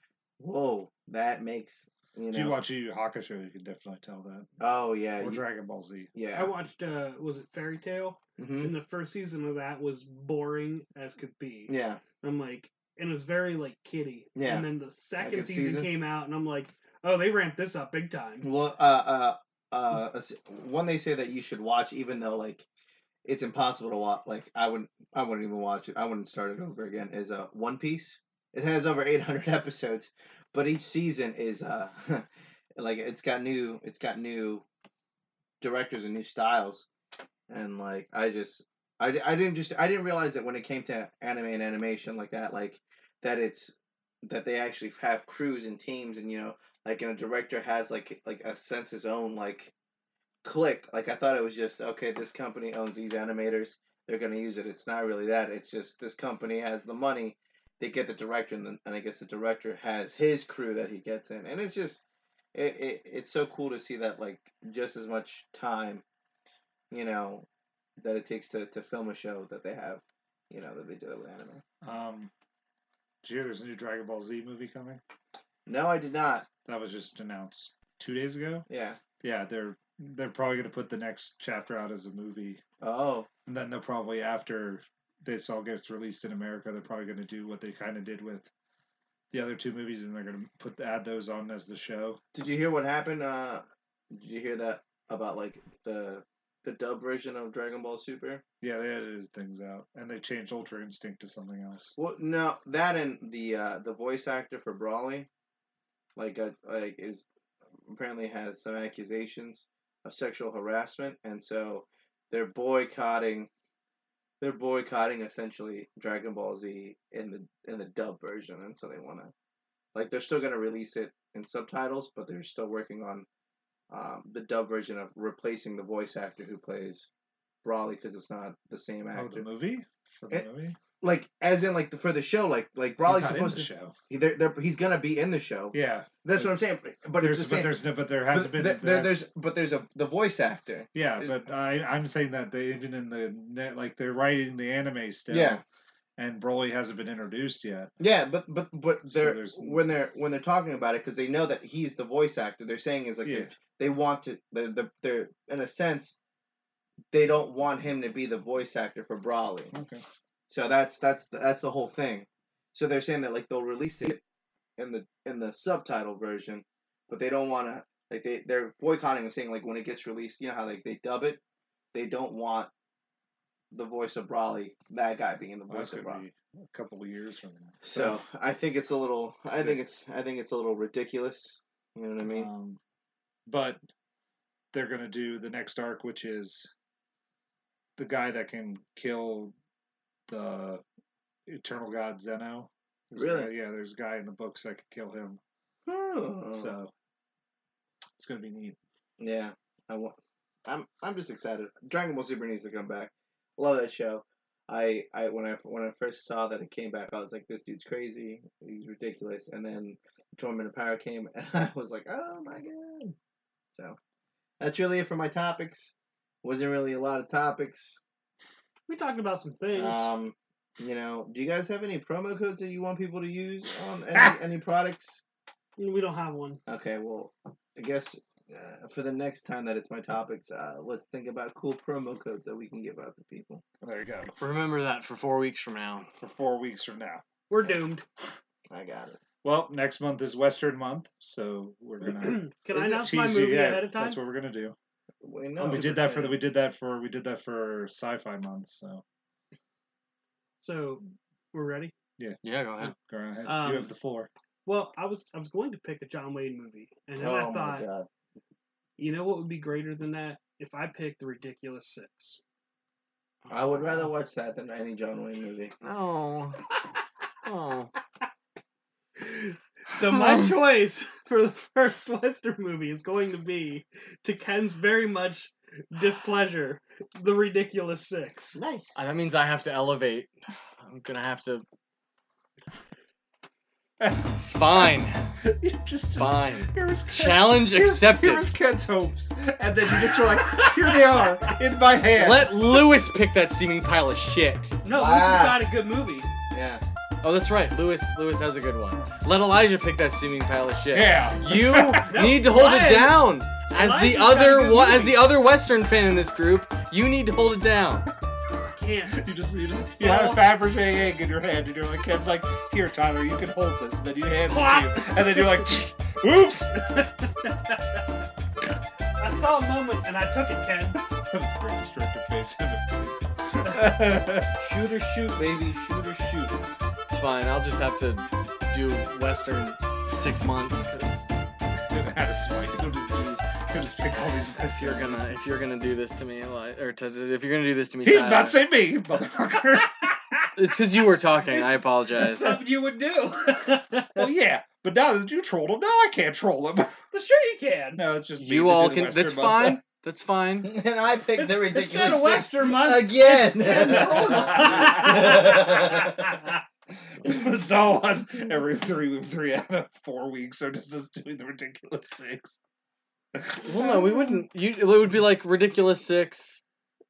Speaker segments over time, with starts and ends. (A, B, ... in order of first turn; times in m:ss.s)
0:00.4-0:02.6 A
0:02.3-0:04.5 B
0:04.6-0:05.4 A
0:05.2-0:06.1 B
0:06.1-0:06.5 A
0:06.3-0:18.5 C
0:08.4-0:08.7 A
0:11.7-0:12.0 A
0:14.3-0:14.6 A
0:15.2-0:15.9 A
0:18.4-0:22.6 A
0:23.2-0:34.6 A
0:35.6-0:36.9 A
0:37.5-0:49.7 A
0:50.4-1:06.0 A
1:06.9-1:07.4 A
1:08.0-1:11.6 A
1:11.8-1:12.3 B
1:13.2-1:15.0 B
1:15.7-1:16.5 A
1:16.6-1:18.6 B
1:18.7-1:19.0 A
1:19.2-1:22.6 B
1:22.8-1:23.3 A
1:23.5-1:28.5 B
1:29.3-1:32.2 B
1:32.3-1:38.4 A
1:38.6-1:41.9 B
1:42.0-1:45.3 A
1:46.2-1:47.2 A
1:47.8-1:53.5 A
1:54.4-1:59.3 A
1:59.9-2:03.3 A
2:03.9-2:07.1 A
2:07.6-2:09.4 A
2:09.1-2:10.8 B
2:11.0-2:21.3 A
2:13.0-2:13.9 B
2:15.7-2:16.5 B
2:17.2-2:19.1 B
2:20.9-2:25.6 B
2:25.3-2:25.6 A
2:26.2-2:27.9 B
2:28.0-2:36.2 A
2:29.0-2:29.9 B
2:33.2-2:33.5 B
2:37.1-2:39.7 A
2:39.7-2:40.0 B
2:40.5-2:44.2 A
2:44.8-2:51.4 A
2:51.9-2:52.7 A
2:53.7-2:56.2 A
2:55.7-2:58.2 B
2:57.8-3:02.5 A
2:59.5-2:59.8 B
3:02.2-3:02.8 B
3:03.5-3:03.8 B
3:04.7-3:06.7 B
3:08.0-3:09.5 B
3:10.3-3:10.8 B
3:11.5-3:15.4 B
3:13.2-3:13.5 A
3:15.8-3:16.8 A
3:16.5-3:16.9 B
3:18.2-3:18.8 B
3:19.2-3:33.1 A
3:34.6-3:35.9 A
3:36.4-3:38.0 A
3:38.9-3:40.1 C
3:39.7-3:45.2 A
3:45.8-3:46.6 C
3:46.7-3:53.6 A
3:53.8-3:54.4 B
3:54.4-3:56.1 D
3:56.2-3:57.2 B
3:57.5-3:58.0 C
3:58.7-3:59.2 A
3:59.4-4:04.8 B
4:02.0-4:04.2 C
4:05.2-4:06.4 A
4:05.6-4:09.0 B
4:10.6-4:11.9 C
4:12.2-4:14.3 B
4:12.4-4:12.9 D
4:13.4-4:13.9 C
4:14.6-4:17.8 C
4:17.2-4:18.1 A
4:19.0-4:22.4 C
4:23.5-4:24.1 D
4:23.5-4:25.7 A
4:25.8-4:26.7 D
4:27.4-4:27.9 D
4:29.2-4:38.6 C
4:30.2-4:30.5 D
4:38.5-4:38.9 A
4:38.9-4:41.6 D
4:44.0-4:52.8 B
4:44.4-4:45.4 D
4:46.2-4:48.5 D
4:50.5-4:50.7 C
4:52.1-4:54.8 D
4:54.8-4:56.3 C
4:54.9-4:55.7 A
4:56.5-4:56.8 A
4:57.2-5:08.1 D
5:00.9-5:02.3 B
5:02.0-5:05.3 C
5:08.6-5:09.3 C
5:09.1-5:17.0 B
5:09.9-5:10.4 C
5:14.5-5:15.6 C
5:17.0-5:17.8 C
5:19.2-5:21.0 C
5:21.1-5:24.5 B
5:24.6-5:26.6 A
5:27.1-5:31.3 D
5:31.9-5:35.4 B
5:34.7-5:38.6 D
5:38.0-5:40.5 B
5:40.6-5:42.6 D
5:41.5-5:44.3 C
5:42.2-5:42.6 B
5:44.2-5:46.9 B
5:47.1-5:48.0 C
5:47.9-5:49.8 B
5:48.4-5:50.7 D
5:50.6-5:56.2 A
5:51.4-5:56.6 C
5:53.8-5:55.6 B
5:57.2-6:02.6 B
6:03.3-6:03.7 B
6:03.6-6:06.6 D